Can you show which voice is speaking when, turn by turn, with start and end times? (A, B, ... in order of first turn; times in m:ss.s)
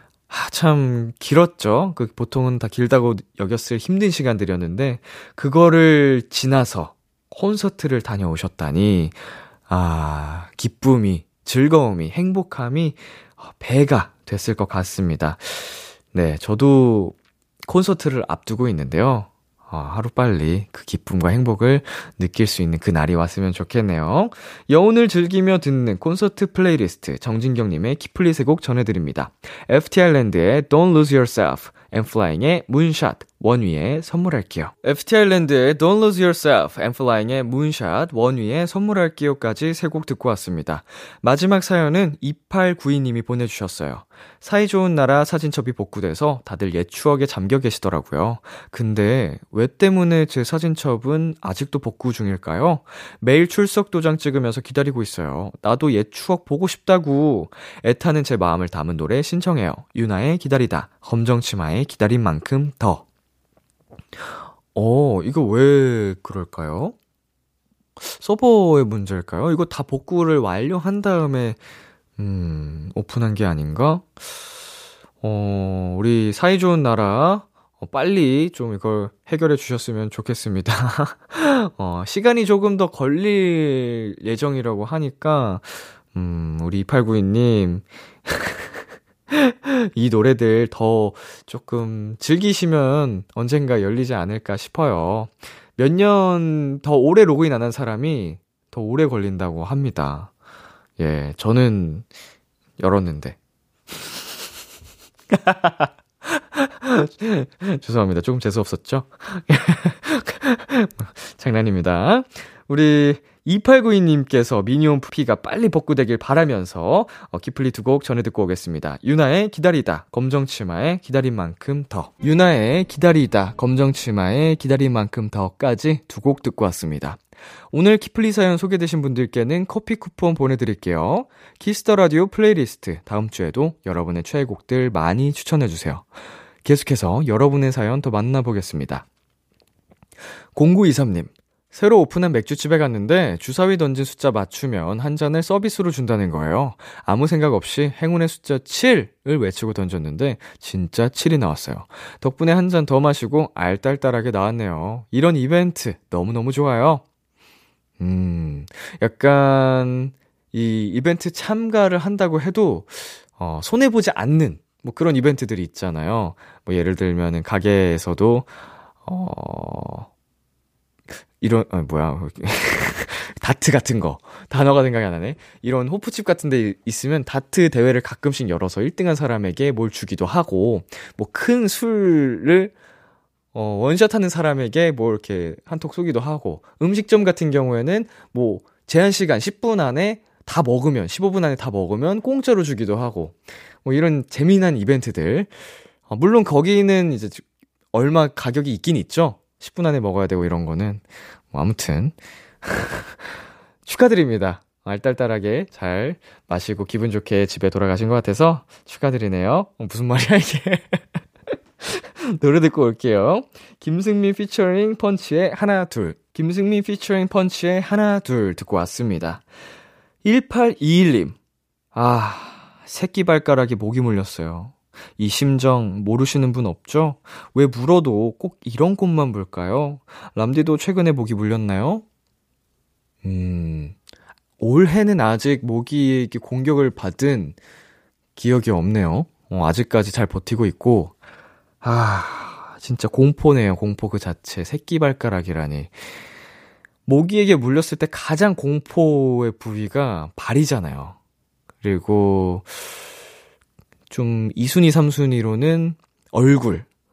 0:00.3-1:03.0 A
1:04.7-1:07.0 A
1:08.0-1:11.6 A
1:12.2-1:14.3 A
1:15.2-1:28.8 A
1:29.3-1:40.3 A
1:41.0-1:42.1 A
1:42.8-1:43.4 A
1:43.9-1:44.2 A
1:45.3-2:16.1 A
2:16.6-2:19.1 A
2:20.6-2:37.0 A
2:38.0-2:48.5 A
2:49.0-2:50.1 A
2:51.4-3:02.7 A
3:03.5-3:15.5 A
3:16.1-3:23.2 A
3:23.8-3:31.0 A
3:31.8-3:39.4 A
3:40.2-3:41.4 A
3:41.9-3:52.0 A
3:53.2-3:54.0 A
3:54.6-3:57.6 A
3:58.4-4:01.2 A
4:01.8-4:05.9 A
4:07.1-4:11.2 A
4:11.8-4:12.8 A
4:14.1-4:16.9 A